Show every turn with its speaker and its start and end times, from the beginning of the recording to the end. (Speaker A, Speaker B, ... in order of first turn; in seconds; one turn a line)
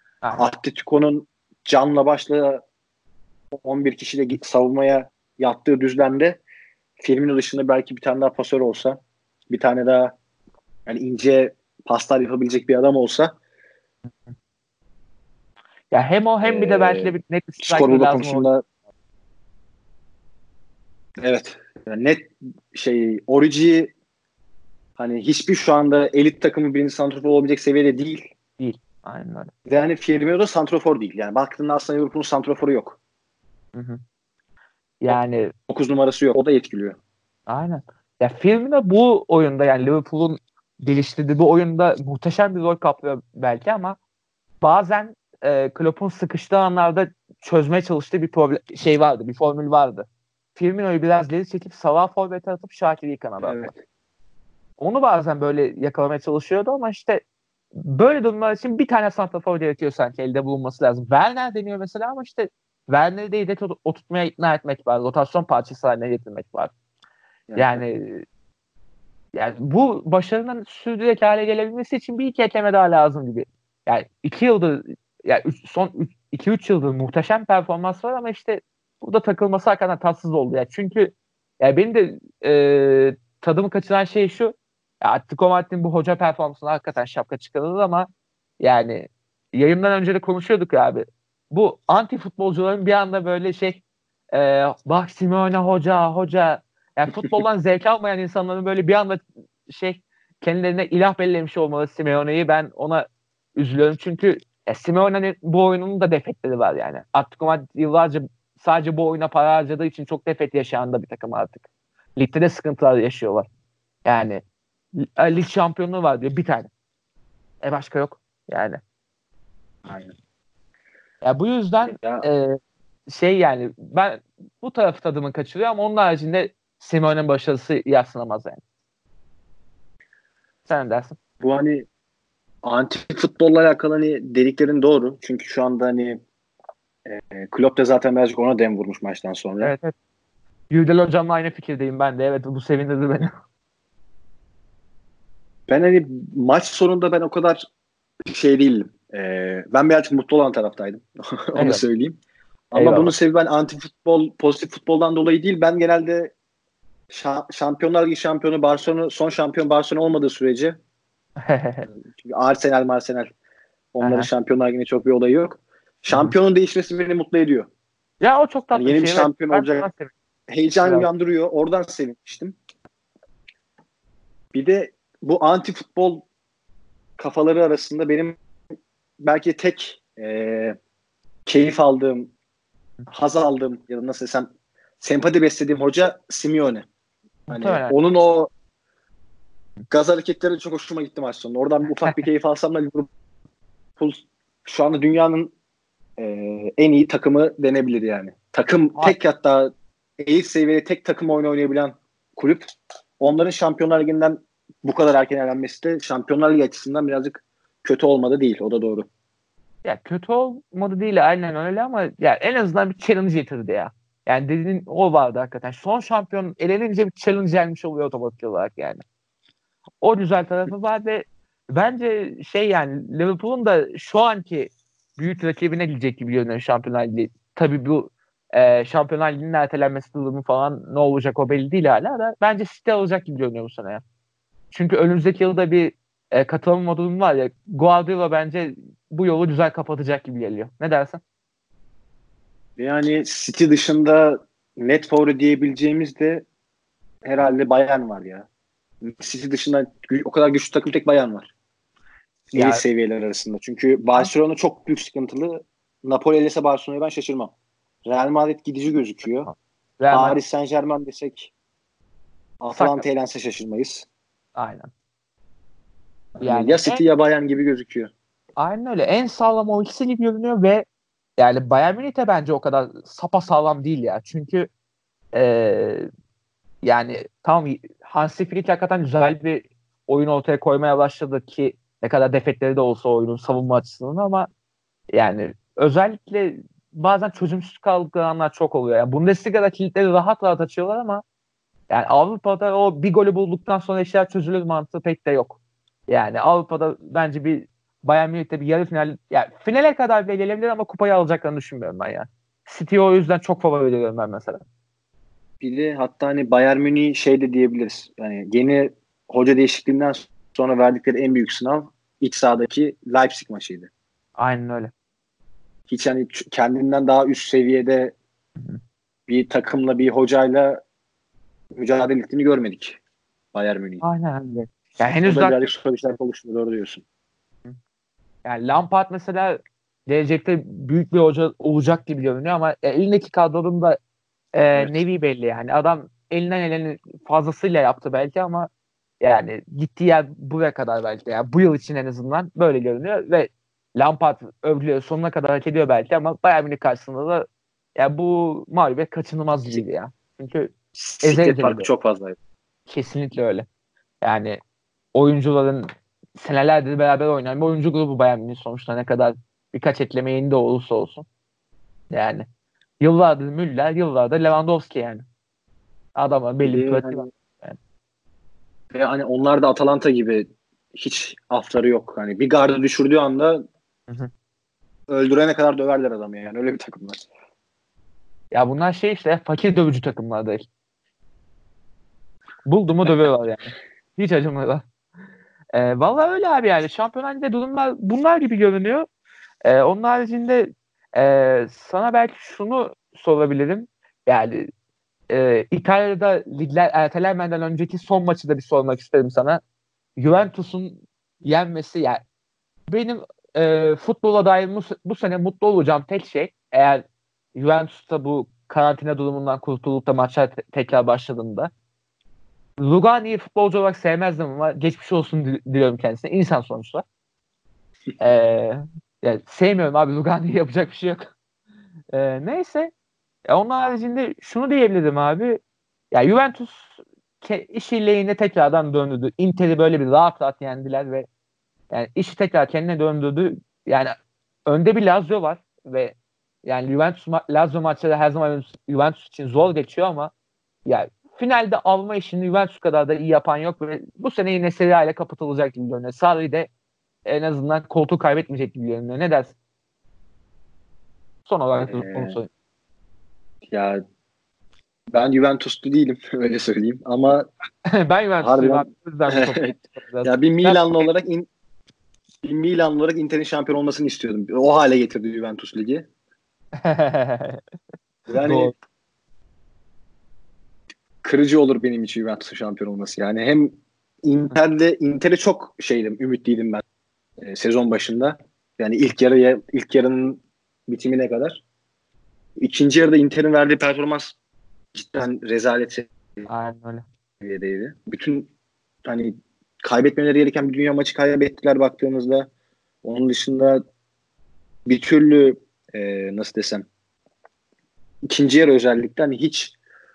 Speaker A: 0.3-2.6
Speaker A: 3.5-6.4
Speaker A: 7.0-10.1
Speaker A: 10.8-13.3
Speaker B: 15.9-18.5
Speaker A: 16.4-18.6
Speaker A: 21.2-23.9
Speaker A: 25.0-28.2
Speaker B: 28.6-29.5
Speaker A: 29.6-33.0
Speaker B: 33.7-34.0
Speaker B: 35.0-35.5
Speaker A: 35.7-37.0
Speaker B: 37.5-44.0
Speaker B: 44.6-53.6
Speaker A: 53.4-53.8
Speaker B: 54.8-57.2
Speaker B: 57.8-66.7
Speaker A: 67.5-67.8
Speaker B: 67.6-68.2
Speaker B: 69.3-88.1
Speaker B: 88.6-93.8
Speaker B: 94.3-111.6
Speaker B: 112.2-113.5
Speaker B: 114.0-114.4
Speaker B: 115.0-116.7
Speaker B: 117.6-118.8
Speaker A: 119.9-120.1
Speaker B: 121.2-128.6
Speaker A: 121.8-122.3
Speaker B: 130.7-131.2
Speaker A: 131.4-131.9
Speaker A: 132.6-136.2
Speaker A: 137.0-139.7
Speaker B: 139.6-139.9
Speaker B: 140.7-143.3
Speaker A: 145.7-147.6
Speaker A: 148.2-152.2
Speaker B: 151.5-151.8
Speaker A: 152.7-156.3
Speaker B: 152.7-153.1
Speaker A: 157.1-160.8
Speaker B: 161.4-161.9
Speaker A: 161.9-163.3
Speaker A: 163.9-167.7
Speaker B: 164.0-164.3
Speaker B: 168.2-170.1
Speaker A: 168.7-169.9
Speaker A: 170.5-172.6
Speaker B: 170.8-171.1
Speaker A: 174.5-176.3
Speaker A: 177.2-178.4
Speaker A: 179.2-180.8
Speaker A: 181.4-182.3
Speaker A: 183.1-184.5
Speaker A: 185.0-186.8
Speaker A: 187.5-188.5
Speaker B: 187.5-187.9
Speaker A: 189.9-193.1
Speaker A: 194.0-195.5
Speaker A: 196.2-202.6
Speaker A: 203.2-209.1
Speaker B: 209.8-219.0
Speaker B: 220.0-234.0
Speaker B: 234.7-241.2
Speaker A: 242.8-246.4
Speaker A: 247.2-248.5
Speaker A: 249.0-251.5
Speaker B: 252.5-252.8
Speaker A: 252.5-257.5
Speaker A: 258.1-259.5
Speaker B: 259.4-260.4
Speaker A: 260.1-261.5
Speaker A: 262.6-264.1
Speaker B: 262.7-263.1
Speaker B: 264.6-264.9
Speaker A: 266.4-268.1
Speaker B: 266.4-267.0
Speaker B: 268.6-270.8
Speaker B: 271.4-274.7
Speaker B: 275.3-276.1
Speaker B: 276.8-284.5
Speaker B: 285.1-291.2
Speaker B: 291.9-304.6
Speaker A: 305.6-313.9
Speaker B: 314.4-314.9
Speaker A: 315.9-318.1
Speaker A: 319.3-320.8
Speaker A: 321.8-323.0
Speaker A: 323.5-324.0
Speaker B: 324.0-325.6
Speaker A: 325.2-327.0
Speaker B: 328.4-334.0
Speaker B: 334.5-338.7
Speaker B: 339.2-351.9
Speaker A: 350.9-352.4
Speaker B: 352.9-353.6
Speaker B: 354.2-354.6
Speaker B: 355.1-361.2
Speaker B: 362.1-362.4
Speaker B: 363.0-365.2
Speaker B: 366.1-367.8
Speaker A: 366.6-367.2
Speaker A: 368.9-373.6
Speaker A: 375.1-377.2
Speaker B: 378.5-380.7
Speaker B: 382.6-384.8
Speaker B: 385.7-389.1
Speaker B: 389.6-394.7
Speaker B: 395.3-399.6
Speaker B: 400.2-402.2
Speaker B: 402.9-407.0
Speaker B: 407.5-411.7
Speaker B: 412.8-417.0
Speaker B: 418.2-421.3
Speaker B: 422.1-422.9
Speaker B: 423.5-425.6
Speaker B: 426.1-431.3
Speaker B: 431.9-434.1
Speaker B: 434.6-440.3
Speaker B: 440.9-446.7
Speaker B: 447.2-449.5
Speaker B: 451.4-452.5
Speaker A: 451.8-452.4
Speaker A: 453.7-454.0
Speaker A: 455.1-457.5
Speaker B: 457.9-461.0
Speaker A: 458.4-459.7
Speaker A: 460.2-461.5
Speaker A: 462.4-466.1
Speaker B: 466.8-467.6
Speaker A: 468.3-468.7
Speaker B: 468.4-468.7
Speaker A: 471.2-476.8
Speaker A: 477.4-481.6
Speaker A: 482.6-484.4
Speaker A: 484.9-486.4
Speaker B: 486.5-487.0
Speaker A: 487.4-488.5
Speaker A: 489.0-492.5
Speaker A: 493.0-493.8
Speaker A: 494.9-496.9
Speaker A: 498.2-499.8